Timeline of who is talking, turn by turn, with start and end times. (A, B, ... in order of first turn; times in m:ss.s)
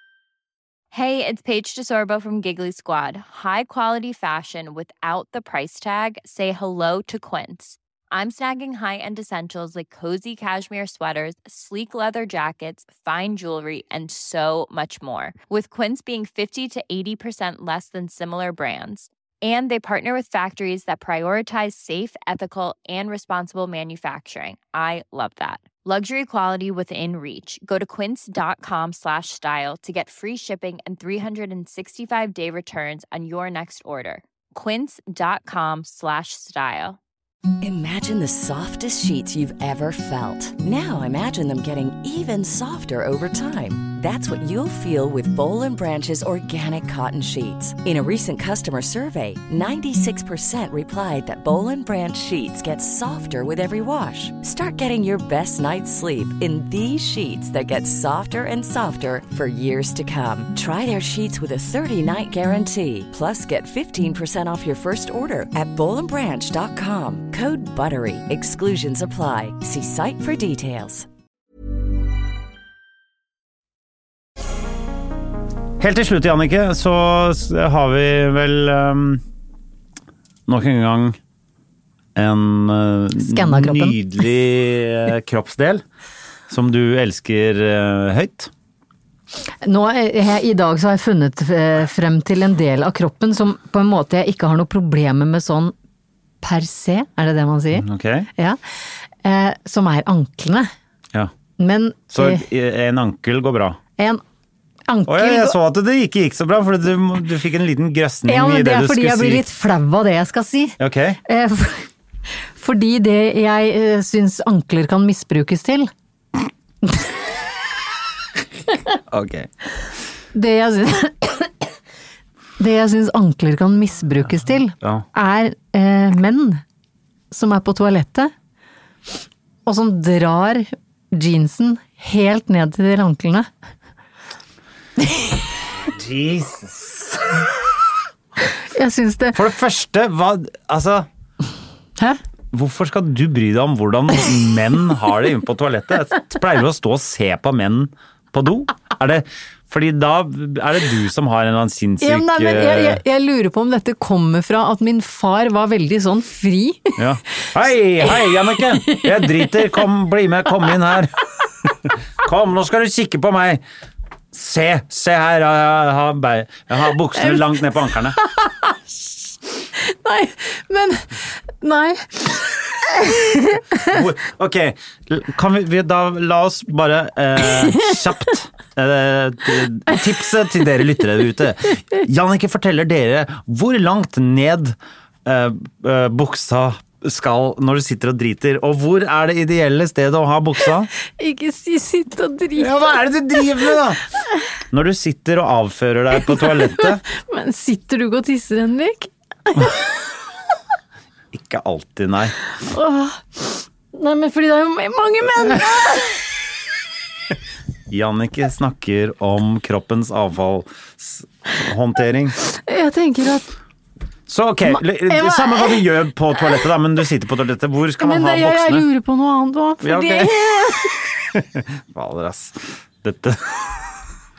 0:00.9-0:37.0 A
0:37.6-1:11.0 B
1:15.8-1:19.2 C
1:20.5-1:21.2 C
1:22.1-1:25.8 C
1:23.2-1:24.0 D
1:26.5-1:28.5 C
1:29.6-1:35.7 D
1:36.4-1:38.6 D
1:37.7-1:38.3 C
1:39.2-1:40.7 D
1:41.6-1:42.4 D
1:42.1-1:43.8 C
1:44.9-1:45.6 D
1:45.1-1:49.4 C
1:48.3-1:51.9 D
1:50.8-1:51.2 C
1:52.6-1:55.9 D
1:59.1-1:59.5 C
2:00.3-2:01.5 D
2:02.6-2:06.6 D
2:04.8-2:05.0 C
2:07.3-2:08.3 D
2:09.6-2:13.5 D
2:15.8-2:17.5 C
2:18.6-2:19.4 D
2:19.3-2:21.1 C
2:22.5-2:33.0 C
2:32.0-2:37.0 D
2:37.0-2:43.6 C
2:38.8-2:39.3 D
2:44.3-2:48.2 C
2:48.2-2:48.8 D
2:49.8-2:54.0 D
2:53.8-3:10.9 C
3:11.1-3:13.6 D
3:12.6-3:14.1 C
3:14.7-3:17.0 C
3:16.3-3:20.0 D
3:21.3-3:22.4 C
3:22.6-3:26.4 D
3:27.9-3:32.4 C
3:32.4-3:33.5 D
3:34.3-3:38.8 C
3:34.7-3:35.8 D
3:38.0-3:41.0 D
3:39.8-3:43.9 C